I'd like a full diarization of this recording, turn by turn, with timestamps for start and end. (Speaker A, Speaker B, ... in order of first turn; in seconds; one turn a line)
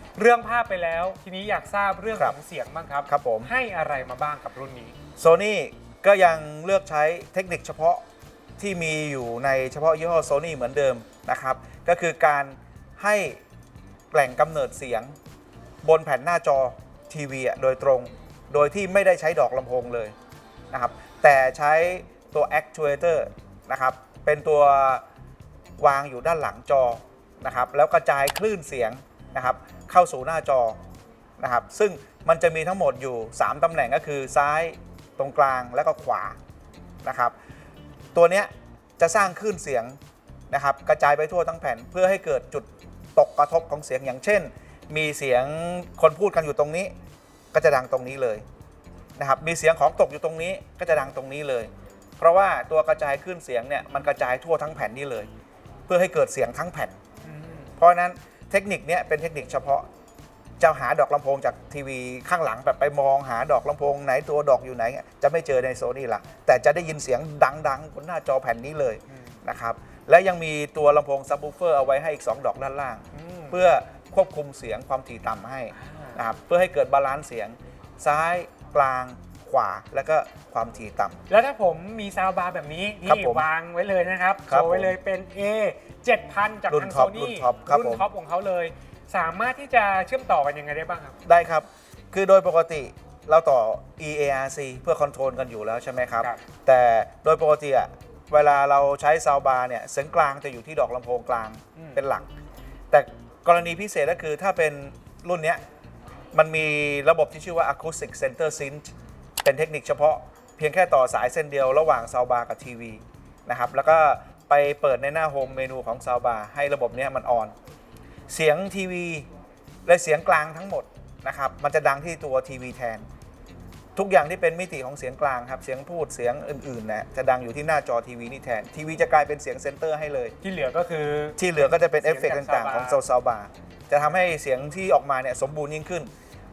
Speaker A: 0.2-5.0
Speaker B: 3.1-3.5
Speaker B: 5.2-8.0
Speaker B: 8.6-13.4
Speaker B: 14.1-15.2
Speaker B: 15.8-20.1
Speaker B: 20.7-25.0
Speaker B: 25.8-30.8
Speaker B: 31.4-36.4
Speaker B: 37.0-37.3
Speaker B: 38.1-40.0
Speaker B: 40.5-46.9
Speaker B: 47.5-48.4
Speaker B: 49.2-55.3
Speaker B: 55.9-57.0
Speaker A: 57.2-57.7
Speaker B: 57.8-59.9
Speaker B: 60.6-81.2
Speaker A: 69.1-69.4
Speaker A: 73.1-73.6
Speaker A: 75.7-76.2
Speaker A: 81.3-91.2
Speaker B: 83.0-83.5
Speaker B: 84.5-85.0
Speaker B: 86.7-88.1
Speaker B: 91.2-102.3
Speaker A: 101.8-102.0
Speaker B: 102.9-105.6
Speaker B: 106.3-108.9
Speaker B: 109.4-117.5
Speaker B: 118.3-119.3
Speaker B: 119.8-123.1
Speaker B: 124.0-130.3
Speaker A: 130.4-133.0
Speaker B: 131.4-136.1